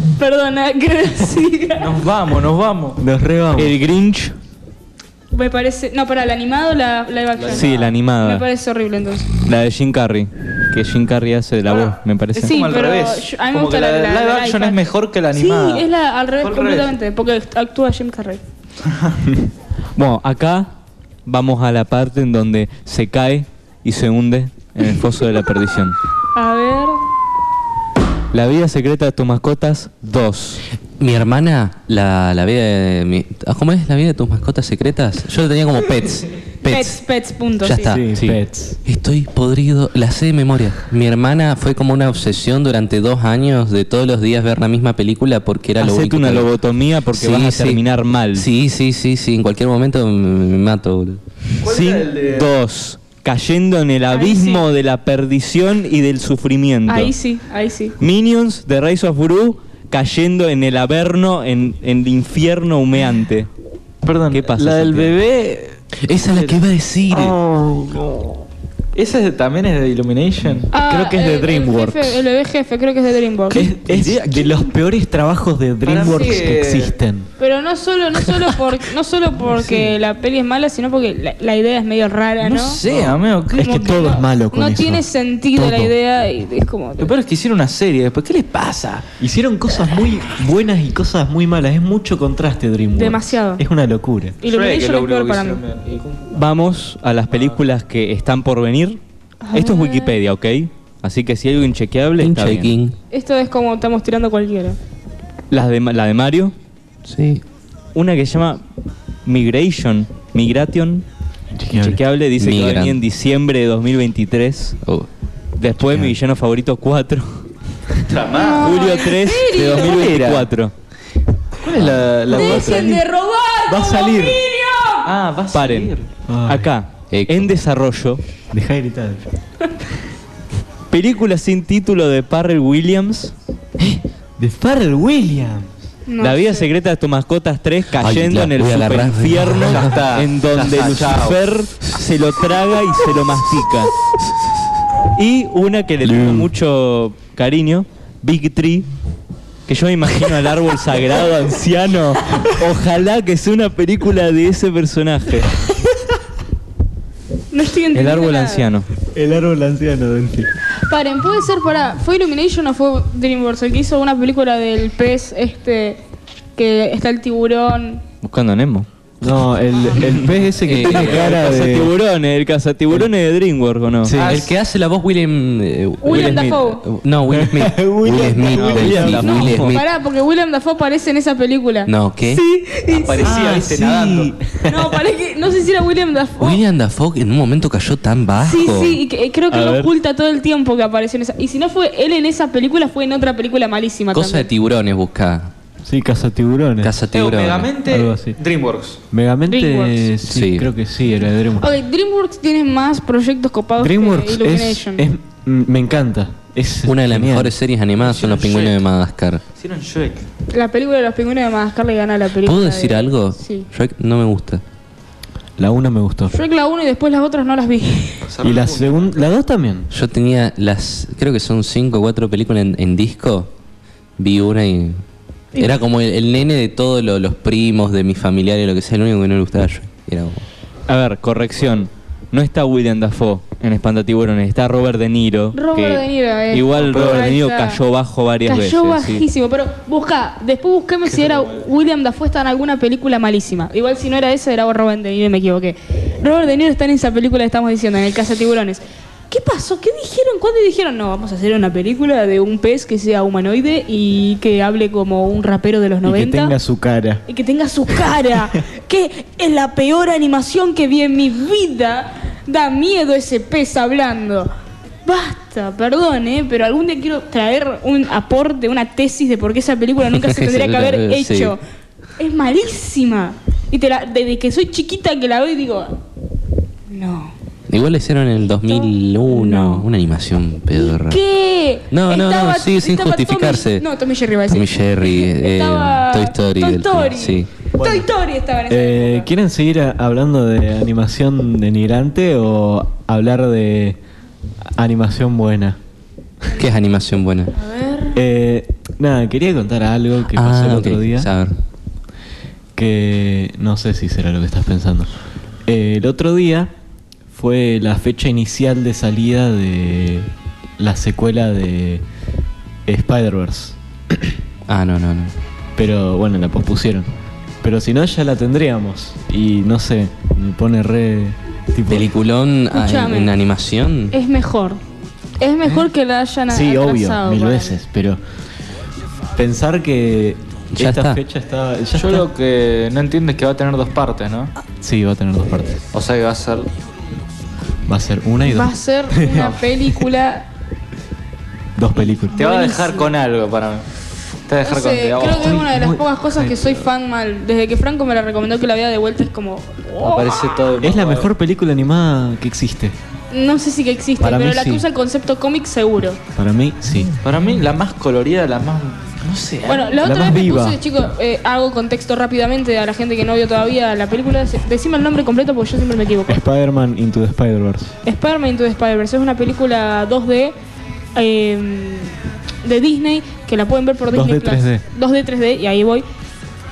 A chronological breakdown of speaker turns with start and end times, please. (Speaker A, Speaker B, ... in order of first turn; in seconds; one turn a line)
Speaker A: 0.2-2.0
Speaker B: 1.8-3.0
Speaker C: 3.0-3.8
Speaker D: 3.5-4.3
Speaker A: 5.3-9.3
Speaker B: 7.4-7.9
Speaker D: 7.5-8.4
Speaker D: 9.4-12.6
Speaker B: 11.7-15.9
Speaker A: 12.4-18.4
Speaker B: 16.4-16.9
Speaker B: 18.8-19.2
Speaker D: 19.9-20.7
Speaker D: 21.2-26.0
Speaker A: 26.3-27.0
Speaker D: 28.3-30.6
Speaker E: 31.0-37.0
Speaker A: 36.6-38.0
Speaker E: 37.6-38.1
Speaker C: 37.9-38.8
Speaker E: 38.8-46.5
Speaker D: 45.8-48.5
Speaker E: 47.1-47.8
Speaker E: 48.3-51.2
Speaker B: 51.6-52.5
Speaker D: 51.6-57.1
Speaker A: 54.1-54.6
Speaker A: 56.9-58.0
Speaker D: 58.0-63.5
Speaker B: 64.0-66.6
Speaker D: 64.3-65.2
Speaker E: 66.0-67.3
Speaker C: 67.1-68.1
Speaker B: 68.9-70.7
Speaker C: 70.7-72.2
Speaker A: 70.7-73.7
Speaker C: 73.5-77.3
Speaker D: 73.9-74.6
Speaker B: 75.8-76.9
Speaker A: 77.4-82.8
Speaker B: 79.5-79.8
Speaker B: 82.4-83.8
Speaker C: 82.8-85.9
Speaker A: 83.6-87.1
Speaker B: 87.0-89.0
Speaker C: 89.2-94.4
Speaker A: 92.9-93.6
Speaker A: 94.4-95.6
Speaker B: 94.4-96.4
Speaker D: 96.3-99.0
Speaker B: 97.3-97.6
Speaker A: 99.4-100.2
Speaker D: 99.5-102.7
Speaker E: 102.2-103.0
Speaker A: 103.1-104.8
Speaker D: 105.5-106.5
Speaker E: 107.0-107.4
Speaker D: 107.9-108.6
Speaker D: 109.2-111.0
Speaker C: 111.5-112.0
Speaker D: 111.7-114.8
Speaker E: 112.4-113.0
Speaker E: 114.8-115.1
Speaker D: 115.6-117.5
Speaker B: 118.0-118.9
Speaker A: 118.3-120.1
Speaker D: 118.6-120.7
Speaker B: 119.6-120.5
Speaker B: 121.6-123.0
Speaker C: 121.6-123.0
Speaker A: 122.3-125.1
Speaker C: 123.7-124.4
Speaker B: 125.0-126.0
Speaker D: 125.5-125.9
Speaker C: 126.3-126.7
Speaker D: 126.5-128.2
Speaker E: 127.1-127.5
Speaker C: 128.5-129.3
Speaker D: 130.9-133.3
Speaker C: 133.8-135.7
Speaker A: 136.1-136.7
Speaker D: 136.2-143.9
Speaker E: 138.0-139.9
Speaker B: 139.6-141.4
Speaker D: 145.1-148.9
Speaker C: 146.0-146.5
Speaker D: 149.7-155.6
Speaker A: 157.5-158.7
Speaker D: 157.9-158.8
Speaker C: 159.1-160.5
Speaker A: 160.8-166.0
Speaker A: 166.6-168.0
Speaker D: 168.2-168.9
Speaker C: 169.2-171.9
Speaker E: 170.7-171.5
Speaker D: 170.7-174.2
Speaker C: 174.0-174.4
Speaker B: 174.1-174.5
Speaker E: 174.2-179.8
Speaker A: 176.0-176.8
Speaker D: 176.1-176.7
Speaker C: 177.3-179.7
Speaker D: 178.6-179.8
Speaker A: 179.7-183.4
Speaker E: 181.8-182.4
Speaker B: 182.9-184.3
Speaker C: 183.2-185.0
Speaker A: 184.7-186.6
Speaker E: 186.4-189.0
Speaker A: 188.4-194.5
Speaker D: 189.5-189.9
Speaker E: 194.1-195.5
Speaker C: 195.8-196.9
Speaker E: 196.8-197.7
Speaker B: 197.1-199.0
Speaker C: 197.8-198.4
Speaker C: 199.1-201.7
Speaker A: 199.5-200.1
Speaker E: 200.2-200.7
Speaker A: 201.6-205.1
Speaker C: 203.8-207.5
Speaker E: 206.8-209.4
Speaker B: 208.0-208.8
Speaker B: 209.5-210.2
Speaker A: 210.5-213.7
Speaker E: 212.4-214.6
Speaker C: 215.6-216.3
Speaker A: 216.3-218.2
Speaker B: 218.2-219.2
Speaker C: 218.4-219.9
Speaker E: 219.9-223.5
Speaker E: 224.2-225.0
Speaker E: 225.6-230.4
Speaker D: 230.9-239.2
Speaker A: 235.5-237.8
Speaker B: 236.7-237.3
Speaker A: 238.4-256.5
Speaker B: 241.2-241.5
Speaker C: 256.0-257.2
Speaker A: 257.3-264.5
Speaker A: 265.0-271.6
Speaker E: 270.1-271.6
Speaker A: 272.2-276.0
Speaker A: 276.9-277.3
Speaker E: 277.7-281.2
Speaker A: 278.6-279.9
Speaker A: 280.7-289.3
Speaker E: 281.9-283.9
Speaker E: 284.5-287.5
Speaker C: 287.7-288.1
Speaker C: 288.7-294.0
Speaker C: 294.8-295.8
Speaker E: 296.5-297.5
Speaker A: 297.5-298.2
Speaker C: 298.1-301.3
Speaker E: 300.3-301.5
Speaker C: 302.8-305.1
Speaker C: 305.6-306.7
Speaker C: 307.3-312.0
Speaker C: 312.9-314.4
Speaker E: 314.7-315.3
Speaker C: 315.8-317.1
Speaker C: 317.6-322.1
Speaker E: 321.9-324.1
Speaker A: 322.7-323.3
Speaker A: 324.1-324.8
Speaker A: 325.4-327.8
Speaker C: 326.5-328.2
Speaker C: 329.3-332.3
Speaker E: 330.7-331.2
Speaker B: 331.9-334.5
Speaker C: 334.8-335.8
Speaker B: 335.9-336.7
Speaker C: 337.9-339.7
Speaker A: 338.4-340.4
Speaker C: 341.8-342.4
Speaker A: 341.9-343.1
Speaker B: 342.3-343.9
Speaker B: 344.5-345.6
Speaker A: 344.6-350.5
Speaker C: 345.2-346.9
Speaker B: 350.0-351.3
Speaker C: 350.8-352.9
Speaker A: 353.3-356.2
Speaker C: 354.2-354.9
Speaker C: 356.3-357.1
Speaker B: 357.2-360.0
Speaker A: 359.6-366.4
Speaker C: 360.0-360.8
Speaker C: 366.3-367.9
Speaker A: 368.0-370.5
Speaker A: 371.1-376.0
Speaker C: 374.1-374.8